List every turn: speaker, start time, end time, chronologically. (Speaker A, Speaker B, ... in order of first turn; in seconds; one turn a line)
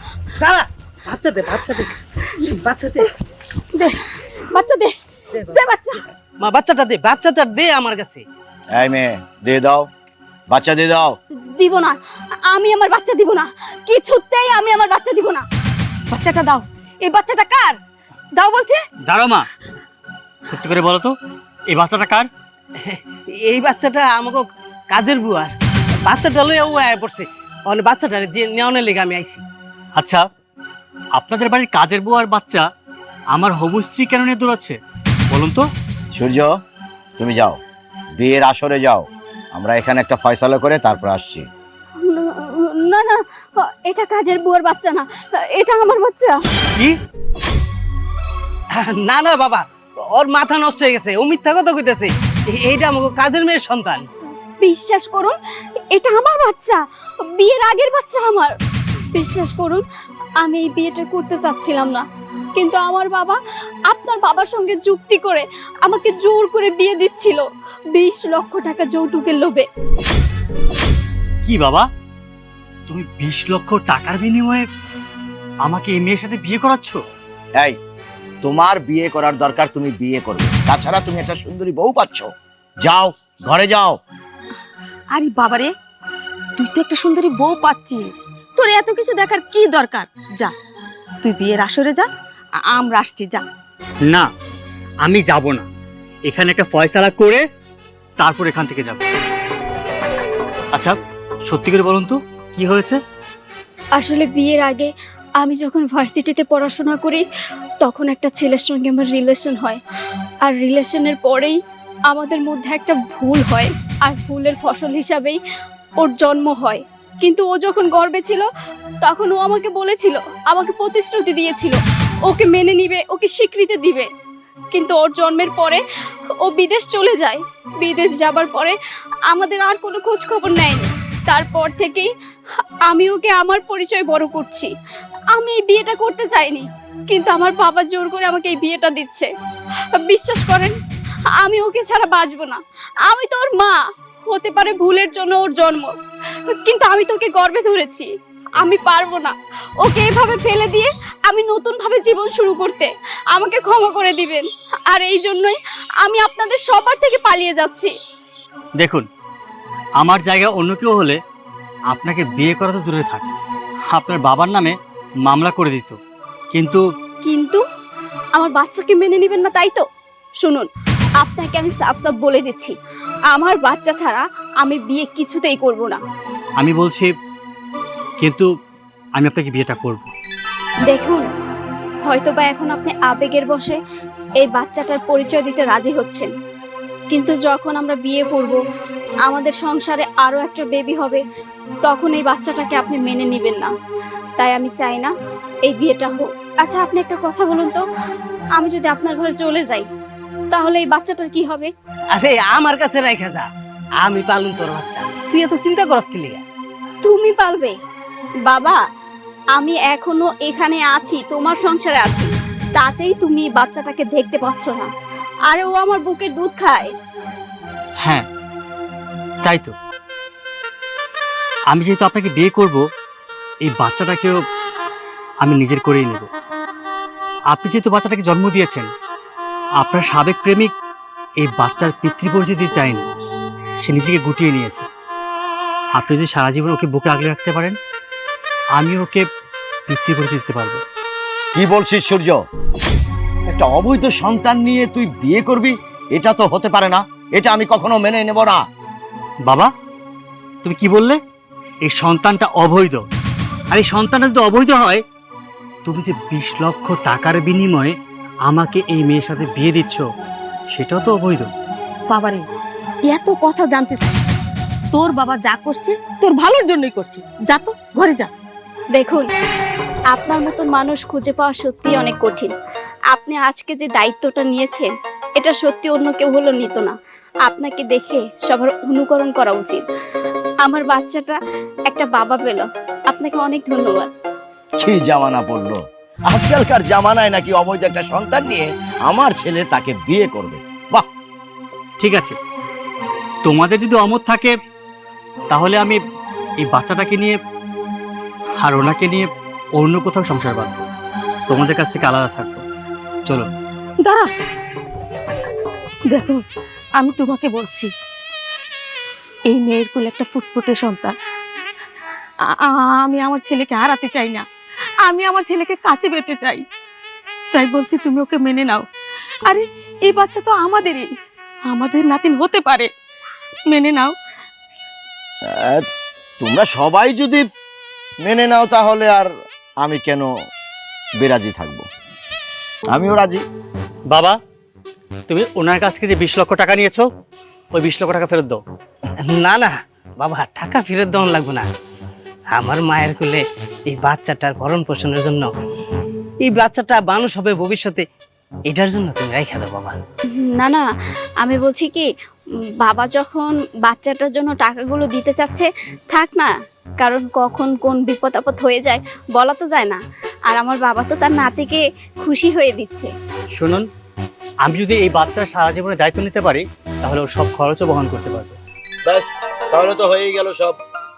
Speaker A: 0.4-3.1
Speaker B: 3.8-4.0
Speaker C: 4.2-4.9
Speaker C: 5.5-6.0
Speaker A: 6.4-8.2
Speaker D: 8.7-9.9
Speaker D: 10.5-11.2
Speaker C: 11.3-15.4
Speaker B: 16.1-17.8
Speaker B: 18.4-18.8
Speaker E: 19.0-19.5
Speaker E: 20.5-21.1
Speaker E: 21.7-22.3
Speaker A: 22.8-25.5
Speaker A: 26.0-29.4
Speaker E: 29.9-30.2
Speaker E: 31.1-32.6
Speaker E: 33.3-34.8
Speaker E: 35.3-35.6
Speaker D: 36.1-36.5
Speaker D: 37.2-37.6
Speaker D: 38.1-41.5
Speaker C: 42.0-46.4
Speaker A: 48.7-54.1
Speaker C: 54.6-55.4
Speaker C: 55.9-58.5
Speaker C: 59.1-59.8
Speaker C: 60.4-67.4
Speaker C: 67.9-69.7
Speaker E: 71.4-71.9
Speaker E: 72.9-74.7
Speaker E: 75.6-77.0
Speaker D: 78.4-82.3
Speaker D: 82.8-84.0
Speaker B: 85.1-85.7
Speaker B: 86.6-90.5
Speaker B: 91.2-92.1
Speaker B: 92.7-93.4
Speaker E: 95.0-95.7
Speaker E: 96.2-97.4
Speaker E: 98.2-99.0
Speaker E: 101.5-103.0
Speaker C: 104.0-107.2
Speaker C: 107.8-109.8
Speaker C: 110.4-111.6
Speaker C: 112.1-115.4
Speaker C: 116.0-118.5
Speaker C: 119.0-124.1
Speaker C: 124.7-125.8
Speaker C: 126.4-128.8
Speaker C: 129.3-132.1
Speaker C: 132.9-134.7
Speaker C: 135.3-139.3
Speaker C: 139.9-140.8
Speaker C: 141.4-145.9
Speaker C: 146.4-148.1
Speaker C: 148.6-157.9
Speaker E: 158.8-159.1
Speaker E: 160.0-161.2
Speaker E: 161.9-163.3
Speaker E: 163.9-166.0
Speaker E: 166.5-166.8
Speaker C: 167.2-167.6
Speaker C: 168.3-169.8
Speaker C: 170.4-170.7
Speaker C: 171.2-172.7
Speaker C: 173.3-176.0
Speaker E: 176.6-177.1
Speaker E: 178.2-178.5
Speaker E: 179.2-180.1
Speaker C: 180.9-181.2
Speaker C: 182.1-183.8
Speaker C: 184.4-186.3
Speaker C: 187.1-188.6
Speaker C: 189.2-191.2
Speaker C: 191.8-193.7
Speaker C: 194.4-195.1
Speaker C: 195.6-197.8
Speaker C: 198.5-199.9
Speaker C: 200.5-201.7
Speaker A: 202.1-203.5
Speaker A: 204.0-206.4
Speaker C: 207.0-207.8
Speaker C: 208.4-208.8
Speaker C: 209.5-214.9
Speaker C: 215.5-216.9
Speaker E: 219.4-219.7
Speaker E: 221.7-222.8
Speaker E: 223.7-224.3
Speaker E: 225.4-226.3
Speaker E: 227.5-228.9
Speaker E: 229.8-230.7
Speaker E: 231.4-233.0
Speaker E: 233.8-234.9
Speaker E: 235.9-237.8
Speaker E: 238.8-239.2
Speaker E: 239.9-240.8
Speaker D: 241.5-242.4
Speaker D: 243.5-248.6
Speaker E: 249.4-249.7
Speaker E: 250.6-251.2
Speaker E: 251.8-253.0
Speaker E: 253.7-255.0
Speaker E: 255.8-257.9
Speaker E: 258.4-260.0
Speaker E: 260.7-261.5
Speaker B: 262.1-262.4
Speaker B: 263.0-264.2
Speaker B: 264.9-268.3
Speaker C: 268.9-269.3
Speaker C: 270.1-272.5
Speaker C: 273.1-279.8
Speaker C: 280.6-281.4
Speaker C: 281.9-284.1
Speaker D: 284.8-285.8
Speaker D: 286.3-291.1
Speaker E: 292.0-292.4
Speaker E: 293.4-294.5
Speaker E: 295.5-296.0
Speaker E: 296.6-297.4
Speaker E: 298.6-300.8
Speaker E: 301.5-302.6
Speaker B: 304.0-304.3
Speaker B: 306.1-306.4
Speaker B: 307.0-307.9
Speaker B: 309.5-311.1
Speaker B: 312.5-314.4
Speaker B: 315.0-316.6
Speaker B: 317.5-318.9
Speaker B: 319.5-321.1
Speaker B: 321.7-322.9
Speaker B: 323.7-324.1
Speaker D: 325.5-325.9
Speaker D: 326.4-327.4
Speaker D: 328.2-329.3
Speaker D: 329.8-330.3
Speaker D: 331.2-331.8
Speaker D: 332.9-333.4
Speaker E: 334.1-334.4
Speaker E: 335.3-337.1
Speaker E: 337.7-338.6
Speaker A: 339.4-341.7
Speaker A: 342.5-345.5
Speaker A: 346.4-348.0
Speaker A: 348.7-350.0
Speaker C: 350.3-350.8
Speaker C: 351.4-352.1
Speaker C: 352.8-363.1
Speaker E: 363.5-363.9
Speaker E: 364.6-368.6
Speaker D: 369.1-370.8